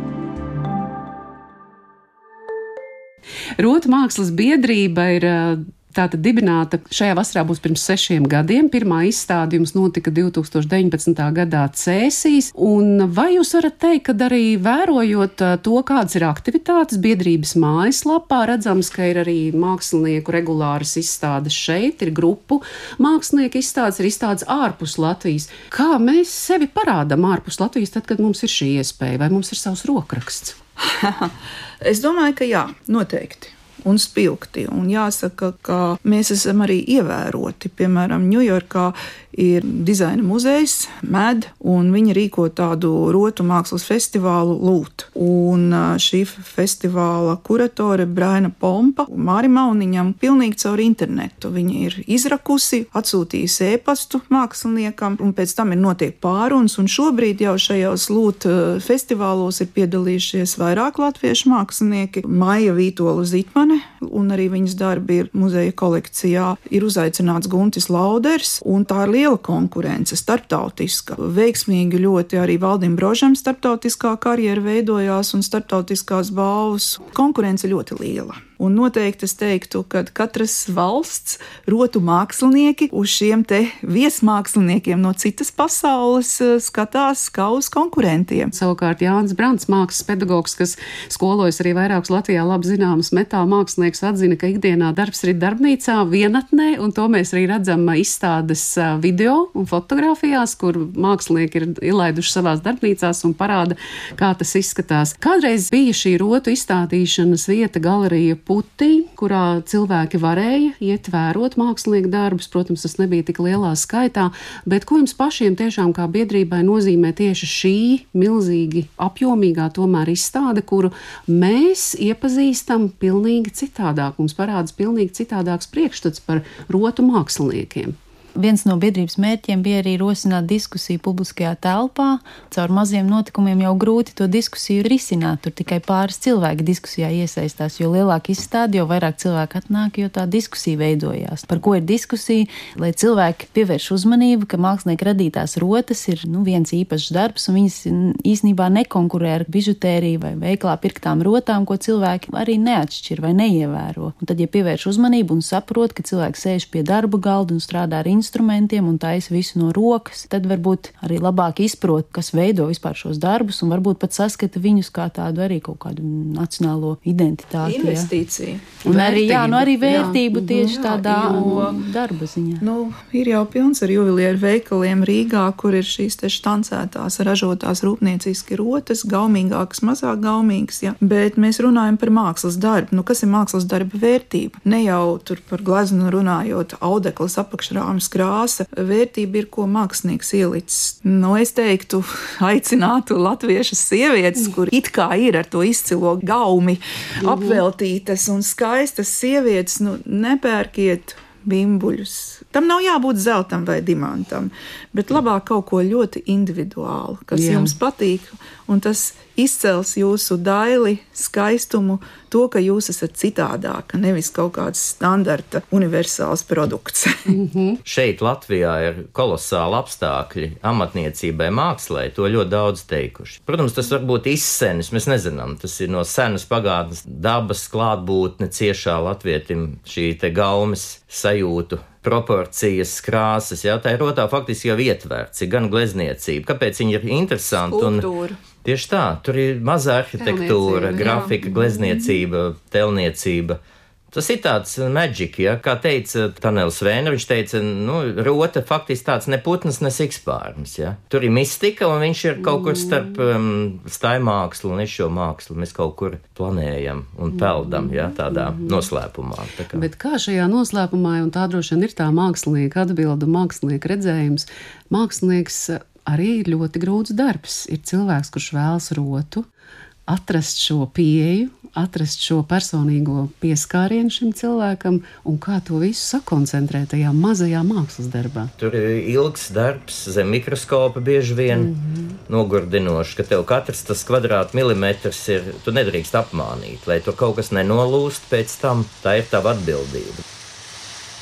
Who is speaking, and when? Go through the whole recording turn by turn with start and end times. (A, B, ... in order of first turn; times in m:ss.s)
0:03.6-0:30.6 A
0:30.8-1:28.5 B
1:28.5-2:08.0 A
2:08.4-2:48.1 C
2:47.6-2:48.9 B
2:48.8-2:51.6 A
2:48.8-2:52.7 C
2:49.9-2:51.8 B
2:52.6-3:37.3 B
3:17.2-3:17.6 A
3:27.3-3:27.7 A
3:37.3-3:37.8 A
3:37.8-3:58.1 D
3:57.7-3:58.4 B
3:58.6-4:03.6 D
4:00.2-4:01.4 A
4:01.0-4:01.3 B
4:04.1-4:19.9 D
4:12.4-4:13.2 A
4:17.3-4:18.8 A
4:19.7-4:29.4 A
4:30.1-4:38.5 A
4:38.6-4:41.7 D
4:41.5-4:42.2 A
4:42.3-4:50.2 D